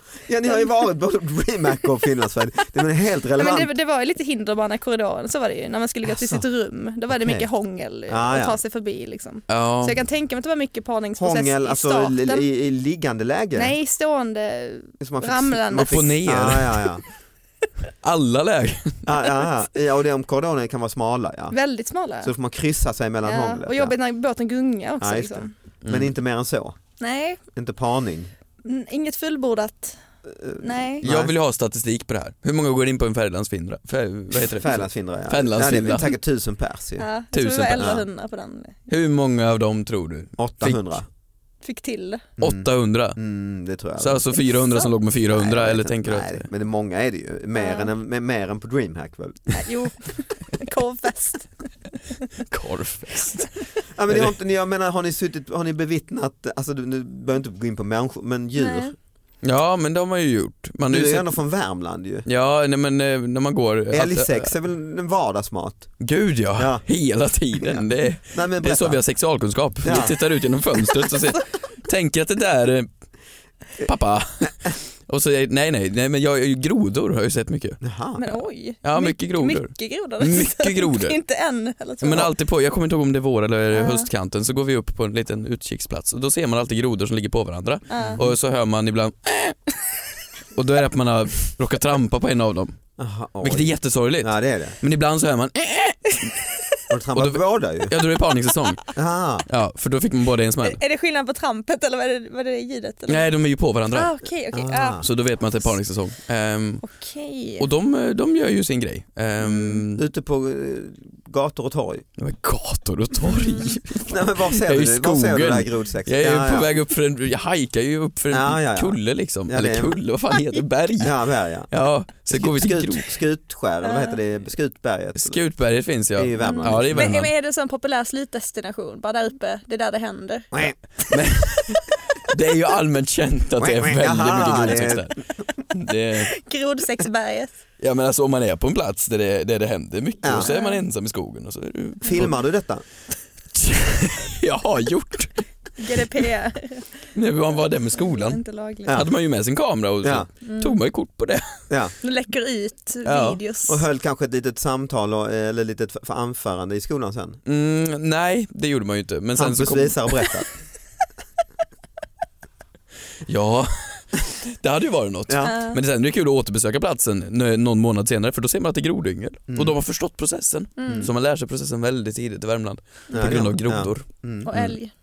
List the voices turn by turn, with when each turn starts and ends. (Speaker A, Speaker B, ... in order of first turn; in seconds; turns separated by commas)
Speaker A: 0.3-3.7, Speaker B: 3.4-12.4, Speaker A: 6.0-6.4, Speaker A: 7.1-7.5, Speaker A: 8.1-8.6, Speaker C: 9.5-10.0, Speaker A: 11.2-13.7, Speaker B: 13.5-16.1, Speaker A: 15.0-17.0, Speaker C: 15.7-16.9, Speaker C: 18.0-19.1, Speaker A: 19.0-21.5, Speaker B: 21.5-22.3, Speaker A: 22.2-23.9, Speaker B: 23.2-25.5, Speaker A: 25.0-26.8, Speaker C: 25.8-26.1, Speaker B: 27.0-27.4, Speaker A: 27.5-28.3, Speaker B: 28.6-30.0, Speaker A: 30.2-31.3, Speaker B: 30.6-31.0, Speaker C: 31.0-36.1, Speaker A: 34.5-37.1, Speaker B: 37.0-38.8, Speaker C: 37.3-38.0, Speaker A: 37.8-38.0, Speaker C: 38.9-41.0, Speaker A: 40.4-41.0, Speaker B: 41.6-42.2, Speaker A: 42.4-44.4, Speaker C: 42.4-43.2, Speaker C: 44.0-46.5, Speaker A: 45.3-49.7, Speaker B: 47.5-47.9, Speaker B: 49.5-51.7, Speaker C: 52.5-53.5, Speaker A: 53.9-58.9, Speaker C: 54.1-54.3, Speaker B: 58.6-58.9, Speaker C: 59.4-61.3, Speaker A: 60.9-62.2, Speaker C: 62.2-64.5, Speaker A: 63.9-65.9, Speaker C: 66.0-72.9, Speaker A: 66.5-66.8, Speaker A: 67.5-69.0, Speaker A: 69.8-70.2, Speaker C: 73.8-77.8, Speaker A: 77.8-78.2, Speaker B: 78.2-82.3, Speaker C: 78.8-81.2, Speaker C: 82.0-89.6, Speaker B: 83.7-84.1, Speaker B: 87.9-88.2, Speaker A: 88.0-88.2, Speaker C: 90.5-92.8, Speaker A: 93.0-94.8, Speaker C: 93.4-96.3, Speaker A: 96.9-97.9, Speaker C: 97.1-98.9, Speaker A: 98.9-99.5, Speaker C: 99.5-100.8, Speaker B: 100.6-103.3, Speaker C: 103.1-104.1, Speaker B: 103.9-105.0, Speaker A: 104.5-105.0, Speaker C: 105.0-106.8, Speaker B: 106.8-107.7, Speaker C: 107.6-110.0, Speaker A: 109.9-112.0, Speaker C: 112.2-121.2, Speaker B: 113.2-113.7, Speaker A: 114.0-116.7, Speaker A: 118.3-120.0, Speaker A: 121.0-121.7, Speaker C: 121.7-123.2, Speaker A: 122.3-125.4, Speaker B: 123.8-124.2, Speaker C: 125.2-127.3, Speaker A: 126.2-127.2, Speaker B: 126.4-130.5, Speaker A: 130.5-131.1, Speaker C: 131.1-136.3, Speaker A: 133.6-135.2, Speaker B: 136.1-137.5, Speaker C: 137.8-142.4, Speaker A: 140.2-140.5, Speaker B: 140.4-140.8, Speaker A: 142.0-142.8, Speaker C: 143.5-145.3, Speaker B: 145.8-147.1, Speaker C: 147.1-151.6, Speaker B: 147.9-149.0, Speaker B: 150.4-150.8, Speaker B: 152.0-153.8, Speaker C: 153.1-153.4, Speaker A: 153.7-157.4, Speaker C: 157.4-160.3, Speaker A: 159.3-160.5, Speaker C: 163.2-174.8, Speaker A: 165.3-165.6, Speaker B: 165.4-165.8, Speaker A: 169.5-169.7, Speaker B: 170.8-171.1, Speaker A: 173.1-174.5, Speaker B: 174.4-174.9